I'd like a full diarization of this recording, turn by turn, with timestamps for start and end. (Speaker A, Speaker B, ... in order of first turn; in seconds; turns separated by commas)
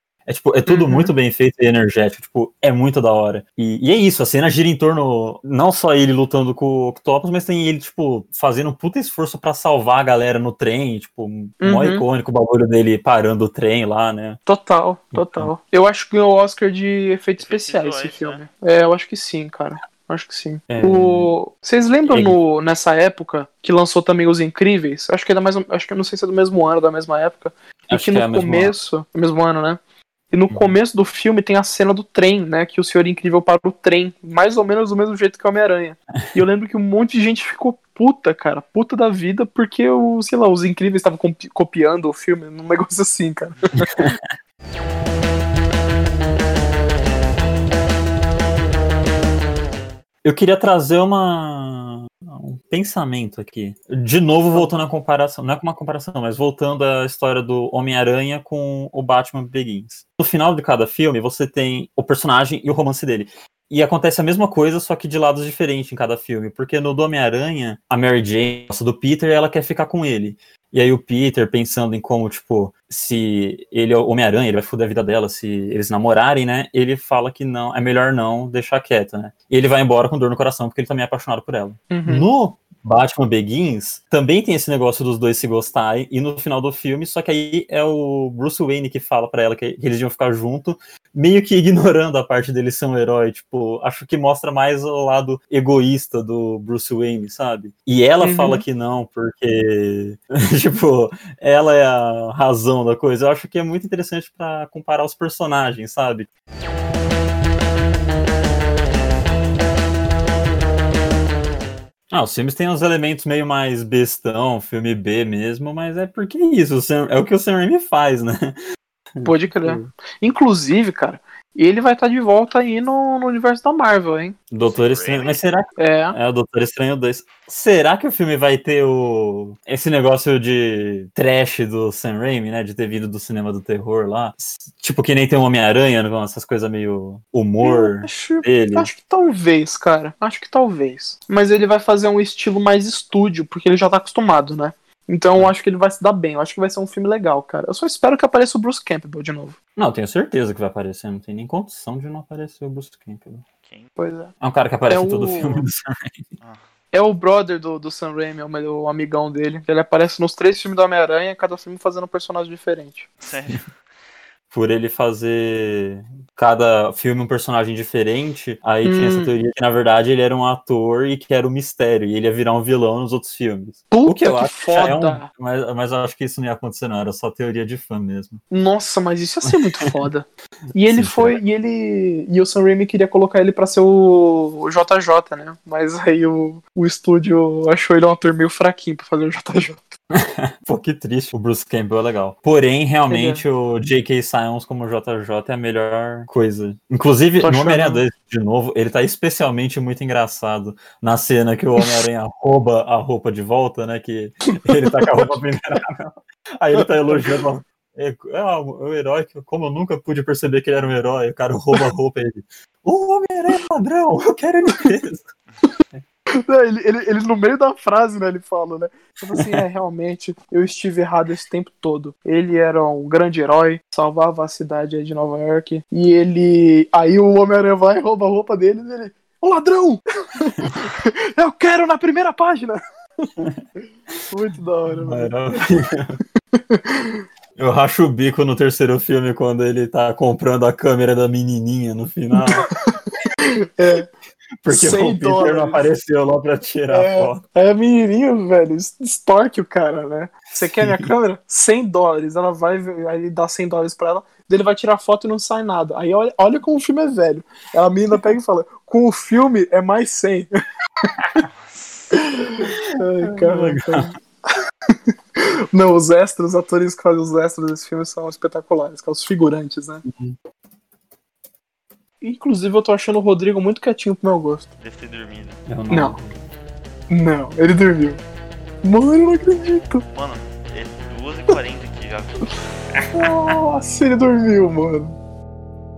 Speaker A: 0.3-14.4, Speaker B: 0.7-1.1, Speaker B: 11.6-12.0, Speaker B: 14.4-29.8, Speaker A: 15.1-15.5, Speaker C: 17.4-18.4, Speaker A: 20.7-21.3, Speaker A: 22.1-22.4, Speaker A: 27.9-28.7, Speaker B: 30.3-43.9, Speaker A: 43.7-44.2, Speaker A: 50.2-106.3, Speaker B: 81.9-82.3, Speaker B: 98.2-98.6, Speaker A: 112.1-118.6, Speaker A: 119.2-119.9, Speaker B: 119.2-124.3, Speaker A: 124.5-138.9, Speaker C: 124.6-125.4, Speaker B: 125.8-126.2, Speaker B: 137.6-149.5, Speaker A: 149.8-153.4, Speaker C: 153.6-153.9, Speaker B: 154.0-154.3, Speaker A: 154.4-156.2, Speaker B: 154.9-155.6, Speaker B: 156.9-163.1, Speaker C: 163.2-163.7, Speaker A: 164.5-178.4, Speaker B: 168.8-169.3, Speaker B: 173.9-175.3, Speaker B: 178.5-189.9, Speaker A: 180.9-181.4, Speaker A: 190.1-215.3, Speaker B: 193.1-193.4, Speaker B: 197.4-198.0, Speaker B: 204.7-205.4, Speaker B: 206.7-207.3, Speaker B: 216.4-233.3, Speaker A: 233.4-233.6, Speaker B: 234.3-235.4, Speaker A: 234.9-236.2, Speaker B: 236.5-237.2, Speaker A: 237.6-242.7, Speaker B: 242.5-244.1, Speaker A: 244.6-247.4, Speaker B: 244.7-245.8, Speaker B: 246.9-260.5, Speaker B: 261.0-261.4, Speaker C: 261.5-262.2, Speaker B: 262.1-264.2, Speaker A: 262.7-264.1, Speaker B: 264.9-270.0, Speaker A: 270.1-270.4, Speaker B: 272.2-274.6, Speaker C: 274.8-275.6, Speaker A: 275.7-276.4, Speaker B: 275.9-276.1, Speaker B: 277.1-278.2, Speaker B: 278.8-280.0, Speaker C: 280.1-283.5, Speaker B: 283.1-285.1